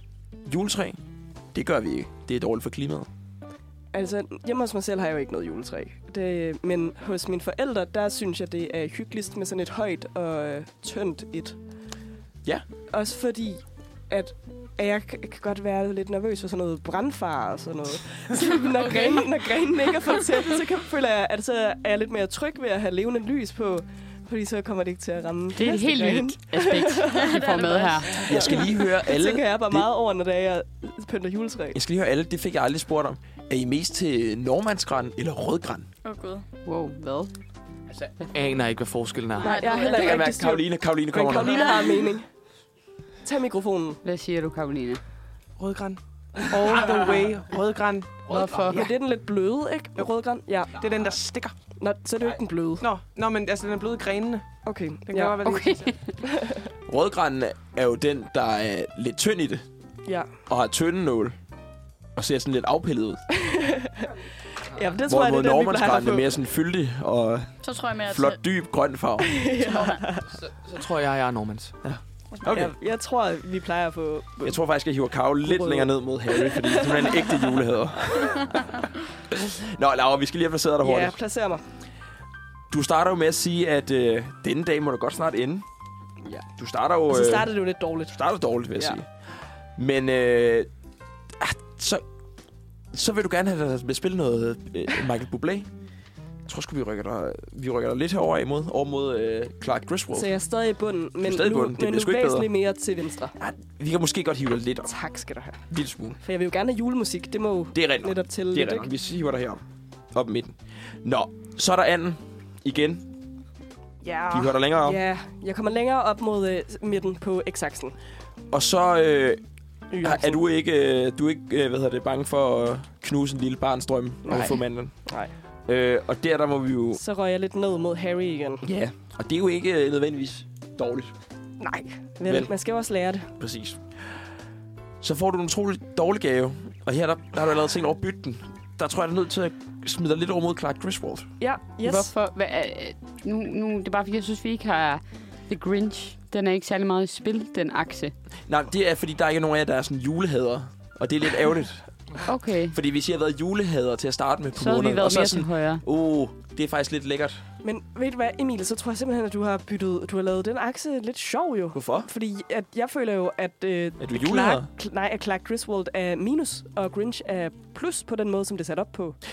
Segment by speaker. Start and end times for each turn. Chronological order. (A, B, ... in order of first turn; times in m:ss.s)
0:00.4-0:01.0 A
0:01.5-0:03.1 A
0:03.9-0:11.6 B
0:12.9-0:27.3 B
0:18.8-0:19.2 C
0:25.5-0:28.3 D
0:27.1-0:28.7 C
0:28.1-0:31.8 B
0:28.2-0:29.9 A
0:31.7-0:35.9 A
0:36.0-0:36.4 C
0:36.6-0:37.3 D
0:38.1-0:39.6 E
0:39.4-0:40.3 C
0:39.4-0:42.2 B
0:39.9-0:41.7 A
0:41.2-0:41.4 F
0:41.5-0:41.9 C
0:43.2-0:44.0 B
0:44.0-0:45.0 D
0:45.6-0:48.8 F
0:48.3-0:48.8 D
0:48.7-0:50.9 B
0:50.7-0:51.6 F
0:51.8-0:52.8 B
0:52.8-0:56.1 F
0:54.6-0:55.4 B
0:55.4-0:56.1 D
0:56.2-0:56.6 B
0:56.9-0:59.6 A
1:00.5-1:01.4 A
1:02.1-1:03.2 A
1:03.3-1:04.1 B
1:04.7-1:06.4 B
1:05.0-1:09.3 A
1:07.6-1:08.4 C
1:09.2-1:10.3 B
1:09.6-1:10.0 C
1:10.3-1:11.8 E
1:11.8-1:12.7 A
1:12.3-1:12.6 C
1:12.4-1:14.6 B
1:14.4-1:18.5 A
1:15.4-1:17.5 B
1:19.3-1:21.2 A
1:20.8-1:21.6 B
1:22.7-1:25.6 A
1:26.6-1:27.5 A
1:27.1-1:28.2 B
1:28.0-1:29.1 A
1:29.8-1:30.7 A
1:31.4-1:32.0 A
1:32.9-1:35.7 A
1:36.4-1:40.3 A
1:40.1-1:43.3 B
1:41.2-1:42.5 A
1:43.4-1:44.9 A
1:44.8-1:45.6 B
1:45.7-1:46.2 A
1:46.2-1:48.9 B
1:47.7-1:53.1 A
1:54.0-1:58.0 B
1:54.3-1:55.0 A
1:58.5-1:59.4 A
1:59.9-2:00.4 B
2:00.0-2:05.1 A
2:04.2-2:05.3 B
2:05.7-2:07.0 A
2:06.9-2:08.7 B
2:08.6-2:11.1 A
2:11.6-2:13.3 B
2:12.2-2:12.5 A
2:13.4-2:13.8 A
2:15.0-2:21.3 A
2:21.4-2:22.1 B
2:21.8-2:28.1 D
2:28.5-2:32.1 A
2:32.2-2:32.7 D
2:32.7-2:37.4 A
2:34.6-2:35.8 D
2:37.6-2:49.2 B
2:41.7-2:42.1 A
2:44.0-2:44.7 A